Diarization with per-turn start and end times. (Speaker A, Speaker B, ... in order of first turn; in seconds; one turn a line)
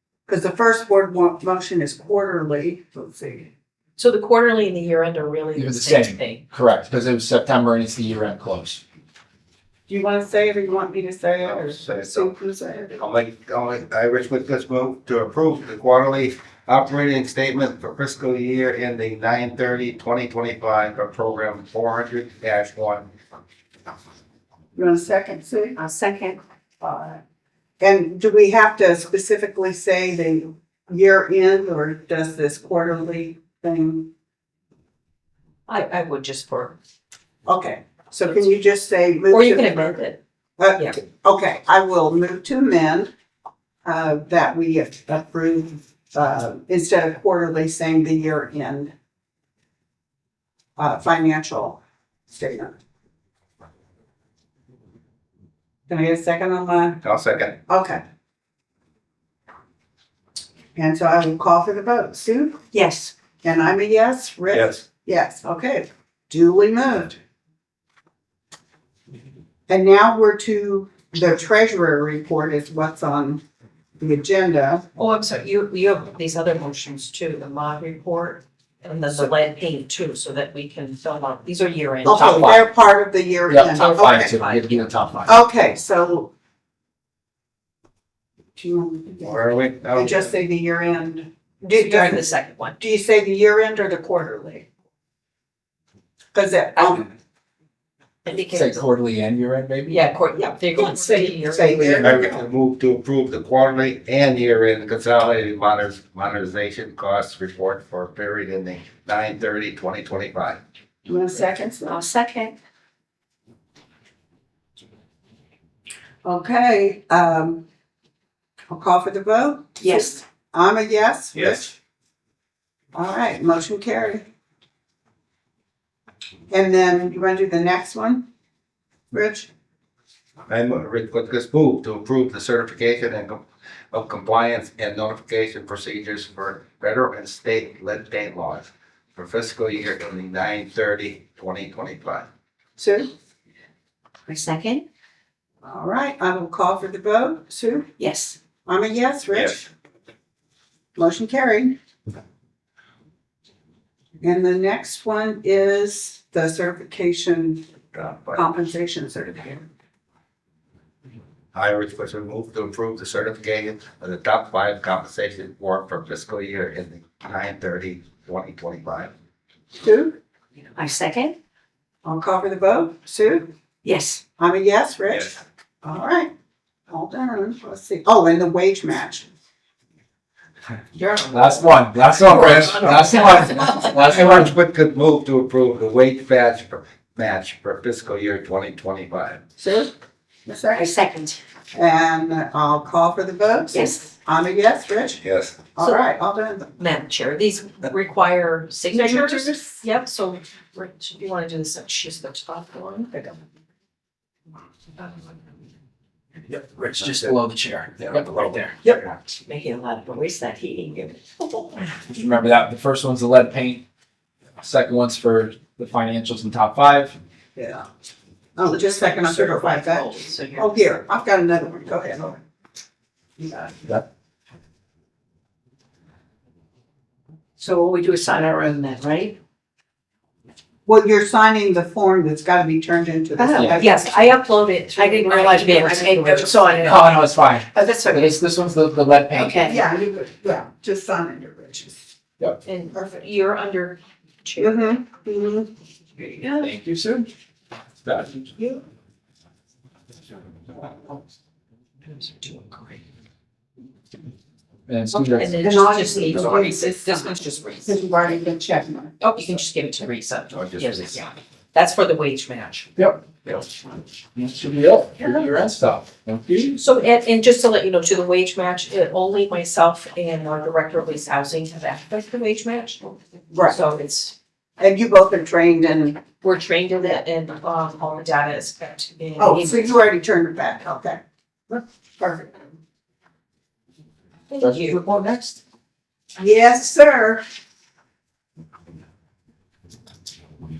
Speaker A: 0.3-3.5
Speaker B: 4.0-6.4
Speaker C: 5.5-8.8
Speaker A: 9.9-13.0
Speaker D: 11.4-12.3
Speaker D: 12.9-23.1
Speaker A: 24.8-25.8
Speaker E: 25.8-26.4
Speaker A: 26.8-27.2
Speaker A: 27.8-34.1
Speaker B: 35.7-36.8
Speaker A: 37.5-39.9
Speaker B: 39.3-40.2
Speaker A: 40.6-43.1
Speaker A: 43.8-48.9
Speaker A: 50.8-51.8
Speaker A: 52.3-52.8
Speaker A: 55.9-57.0
Speaker D: 57.0-57.6
Speaker A: 57.7-58.0
Speaker A: 60.8-62.6
Speaker E: 62.7-63.1
Speaker A: 63.4-67.2
Speaker D: 64.5-64.8
Speaker A: 69.7-73.4
Speaker A: 74.0-74.8
Speaker B: 75.0-82.5
Speaker A: 82.0-84.4
Speaker C: 82.1-82.6
Speaker C: 83.5-85.4
Speaker B: 83.7-84.9
Speaker A: 85.2-86.3
Speaker A: 88.5-92.2
Speaker D: 89.2-90.3
Speaker B: 91.7-92.8
Speaker A: 92.8-94.7
Speaker A: 96.3-97.1
Speaker B: 96.8-97.0
Speaker B: 98.2-98.8
Speaker C: 98.3-100.0
Speaker B: 99.9-102.2
Speaker A: 100.7-102.4
Speaker D: 102.0-110.6
Speaker A: 111.0-112.0
Speaker E: 111.8-112.5
Speaker A: 116.2-117.6
Speaker A: 118.7-121.7
Speaker E: 119.8-120.1
Speaker D: 121.3-121.6
Speaker A: 122.9-124.2
Speaker A: 126.5-128.2
Speaker A: 129.1-129.5
Speaker D: 130.5-142.3
Speaker A: 142.8-143.1
Speaker E: 144.3-144.8
Speaker A: 145.6-147.9
Speaker E: 148.0-148.4
Speaker A: 148.6-149.7
Speaker A: 150.9-151.8
Speaker A: 154.2-157.6
Speaker D: 157.9-158.4
Speaker A: 158.3-159.7
Speaker D: 161.5-169.1
Speaker A: 169.8-170.2
Speaker E: 170.8-171.3
Speaker A: 172.0-173.5
Speaker E: 173.8-174.2
Speaker A: 174.4-176.3
Speaker A: 176.9-179.3
Speaker A: 180.9-181.7
Speaker C: 181.3-184.5
Speaker B: 182.3-183.8
Speaker D: 183.9-189.4
Speaker A: 189.6-189.9
Speaker A: 190.5-190.9
Speaker E: 190.7-191.4
Speaker A: 191.7-195.2
Speaker E: 193.7-194.1
Speaker D: 195.2-195.6
Speaker A: 195.7-196.7
Speaker B: 196.8-203.4
Speaker A: 198.9-199.8
Speaker B: 205.0-205.4
Speaker C: 206.5-208.8
Speaker D: 207.0-207.3
Speaker D: 208.0-209.1
Speaker B: 208.8-211.9
Speaker C: 212.1-213.8
Speaker C: 214.6-217.2
Speaker A: 217.6-217.9
Speaker A: 218.6-222.4
Speaker B: 218.6-220.7
Speaker A: 223.4-223.9
Speaker E: 227.6-229.3
Speaker A: 230.8-234.1
Speaker E: 233.4-233.8
Speaker B: 233.6-237.0
Speaker E: 234.9-237.2
Speaker C: 236.8-239.6
Speaker E: 237.7-238.3
Speaker E: 239.3-239.8
Speaker A: 239.6-242.0
Speaker B: 242.6-245.0
Speaker A: 244.6-245.7
Speaker C: 246.6-247.3
Speaker C: 248.0-248.4
Speaker B: 252.1-253.0
Speaker C: 254.9-255.6
Speaker A: 255.1-257.3
Speaker B: 255.3-258.0
Speaker A: 257.8-259.2
Speaker B: 259.2-262.9
Speaker D: 260.5-261.1
Speaker C: 262.9-263.3
Speaker C: 264.4-266.8
Speaker B: 266.8-274.3
Speaker A: 273.5-273.8
Speaker A: 274.8-276.2
Speaker B: 276.4-279.9
Speaker A: 279.4-282.5
Speaker B: 284.5-285.0
Speaker C: 284.6-285.6
Speaker A: 286.4-287.4